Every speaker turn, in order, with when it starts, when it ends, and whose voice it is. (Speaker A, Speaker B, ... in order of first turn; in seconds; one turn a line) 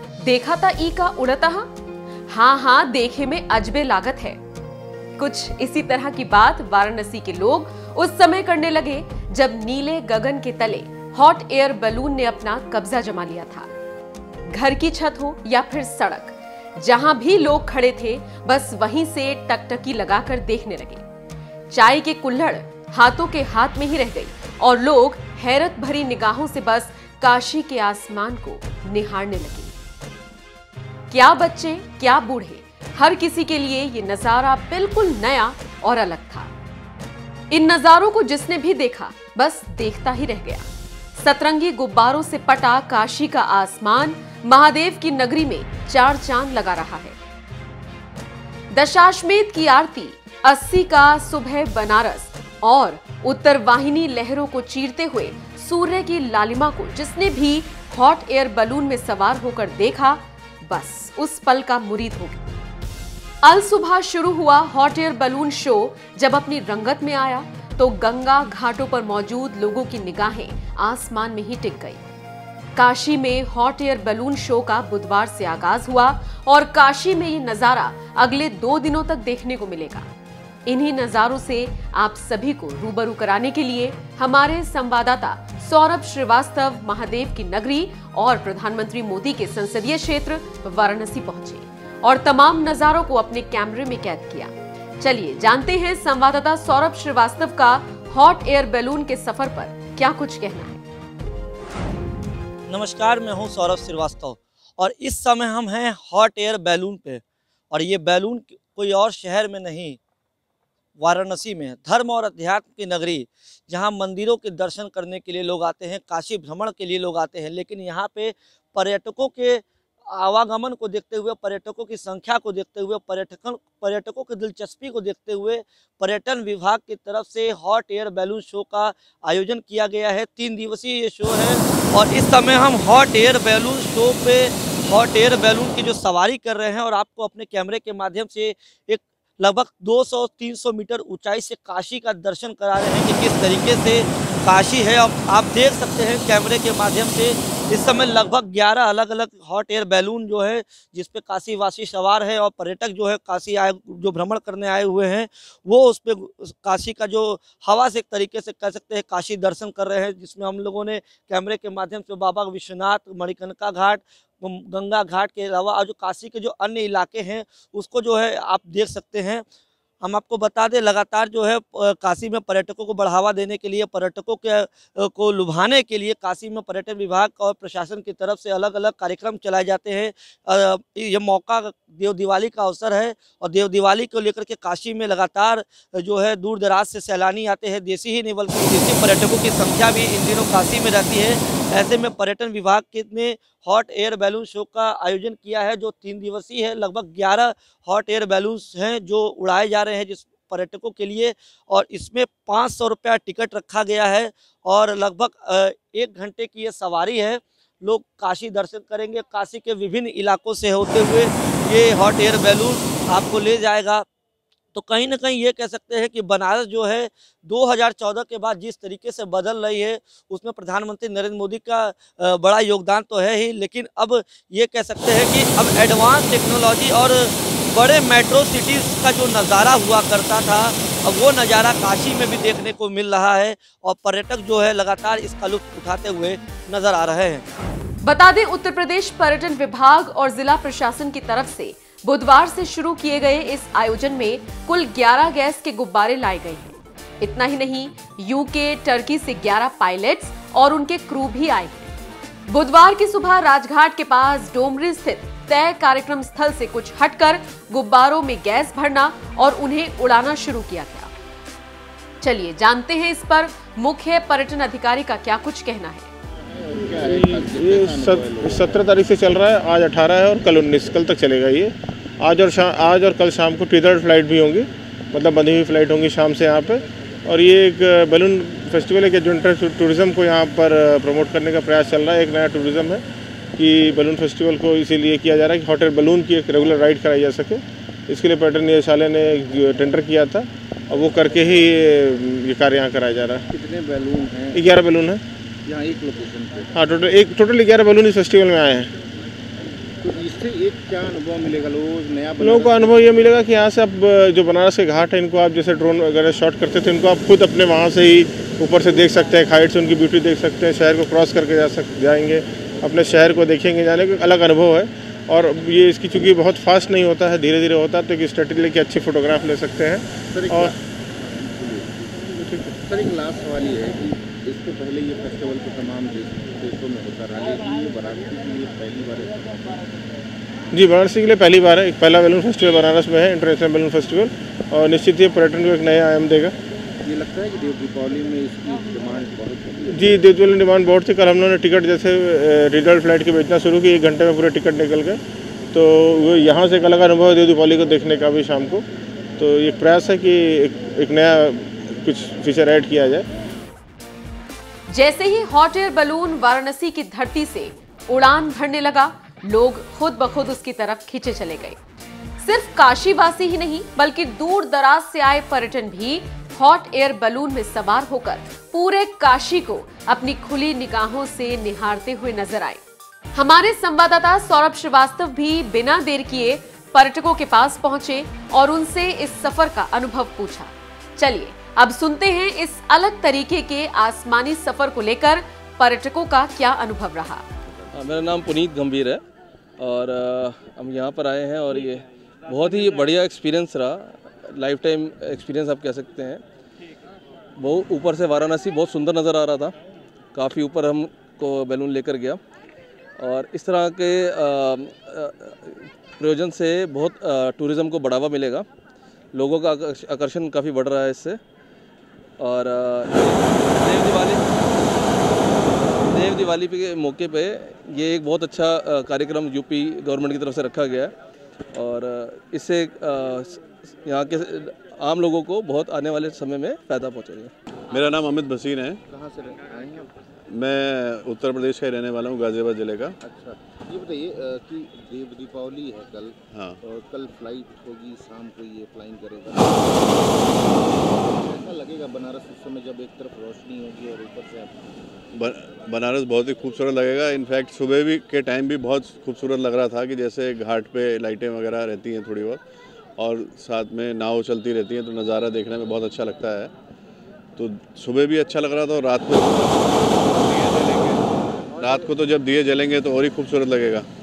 Speaker A: 0.2-1.7
Speaker A: 2.3-4.4
Speaker A: 5.2-13.7
Speaker A: 14.5-21.0
Speaker A: 21.7-29.7
Speaker A: 31.1-36.5
Speaker A: 37.5-47.2
Speaker A: 48.7-62.4
Speaker A: 63.4-72.0
Speaker A: 72.8-80.1
Speaker A: 80.7-100.8
Speaker B: 102.7-110.0
Speaker B: 111.0-169.4
Speaker B: 170.0-214.1
Speaker B: 214.7-237.4
Speaker A: 238.0-251.9
Speaker A: 252.5-261.1
Speaker A: 262.2-266.1
Speaker C: 266.6-268.9
Speaker D: 266.9-283.0
Speaker D: 283.6-293.4
Speaker C: 293.5-294.7
Speaker D: 294.5-295.2
Speaker C: 295.6-296.7
Speaker D: 296.7-298.9
Speaker C: 300.0-303.2
Speaker D: 302.4-320.7
Speaker C: 320.3-322.1
Speaker D: 322.4-322.7
Speaker C: 322.8-329.9
Speaker D: 330.7-336.5
Speaker C: 337.0-340.2
Speaker D: 339.9-345.2
Speaker D: 345.7-348.8
Speaker D: 349.4-353.2
Speaker A: 354.9-361.8
Speaker A: 362.4-372.8
Speaker A: 373.3-387.4
Speaker E: 387.9-389.2
Speaker E: 389.8-396.4
Speaker E: 397.6-399.7
Speaker E: 400.3-402.4
Speaker E: 403.2-408.7
Speaker E: 409.3-411.4
Speaker E: 412.4-414.4
Speaker E: 415.6-421.1
Speaker E: 421.7-427.5
Speaker F: 427.9-429.0
Speaker C: 429.1-430.1
Speaker F: 430.5-433.1
Speaker C: 433.2-444.7
Speaker F: 436.5-436.8
Speaker F: 445.3-452.6
Speaker F: 453.2-456.7
Speaker F: 457.6-461.2
Speaker C: 461.7-462.1
Speaker F: 461.8-464.1